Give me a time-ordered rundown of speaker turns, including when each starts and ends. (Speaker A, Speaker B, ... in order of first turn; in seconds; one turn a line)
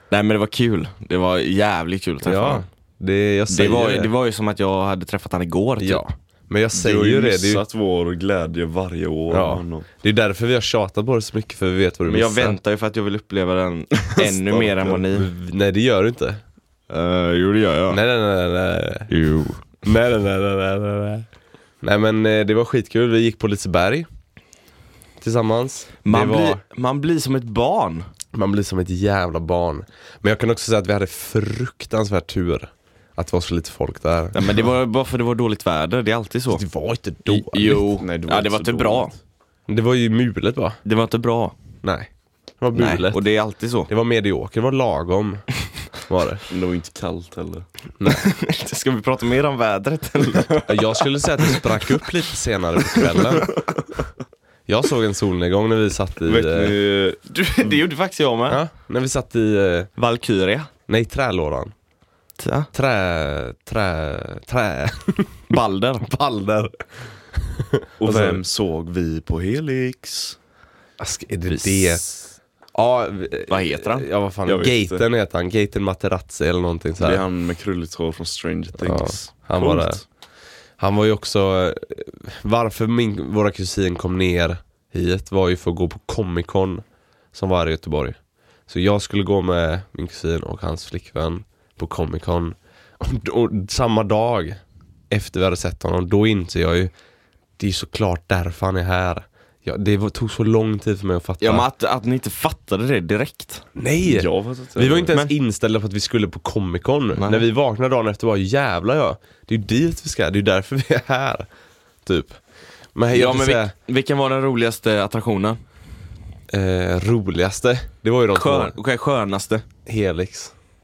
Speaker A: 0.1-2.7
Speaker B: 2.2-4.1
Speaker A: 3.5-6.0
Speaker B: 5.8-7.6
Speaker C: 6.7-9.9
Speaker B: 9.3-12.6
Speaker A: 12.1-15.3
Speaker B: 14.2-16.4
Speaker A: 16.9-18.0
Speaker B: 17.9-19.1
Speaker A: 19.1-19.6
Speaker B: 19.8-21.3
Speaker B: 21.8-24.1
Speaker B: 25.2-26.6
Speaker A: 26.0-28.1
Speaker B: 28.3-34.6
Speaker A: 34.3-36.6
Speaker B: 36.5-37.9
Speaker A: 37.2-39.1
Speaker C: 38.0-39.1
Speaker B: 39.7-40.8
Speaker A: 40.9-41.6
Speaker B: 41.8-42.1
Speaker B: 42.6-43.2
Speaker A: 42.8-43.9
Speaker B: 43.9-45.5
Speaker B: 46.0-46.4
Speaker C: 46.5-47.7
Speaker B: 48.0-48.2
Speaker A: 48.0-50.9
Speaker B: 50.7-53.5
Speaker B: 54.7-56.8
Speaker C: 56.2-57.2
Speaker A: 57.3-58.6
Speaker B: 58.5-59.9
Speaker A: 60.0-60.7
Speaker B: 60.9-61.7
Speaker A: 62.4-62.7
Speaker B: 62.7-65.5
Speaker A: 65.5-66.1
Speaker B: 66.0-68.4
Speaker C: 68.0-70.4
Speaker B: 71.0-77.2
Speaker A: 71.5-72.0
Speaker A: 73.5-74.1
Speaker C: 74.5-75.0
Speaker C: 77.0-80.0
Speaker B: 78.8-80.0
Speaker B: 80.8-96.9
Speaker B: 97.6-101.7
Speaker A: 101.4-103.7
Speaker B: 103.8-111.5
Speaker C: 104.0-105.2
Speaker A: 107.1-107.4
Speaker B: 112.0-112.4
Speaker B: 113.0-113.7
Speaker A: 113.1-115.6
Speaker B: 116.5-118.8
Speaker A: 118.3-119.7
Speaker B: 119.9-120.5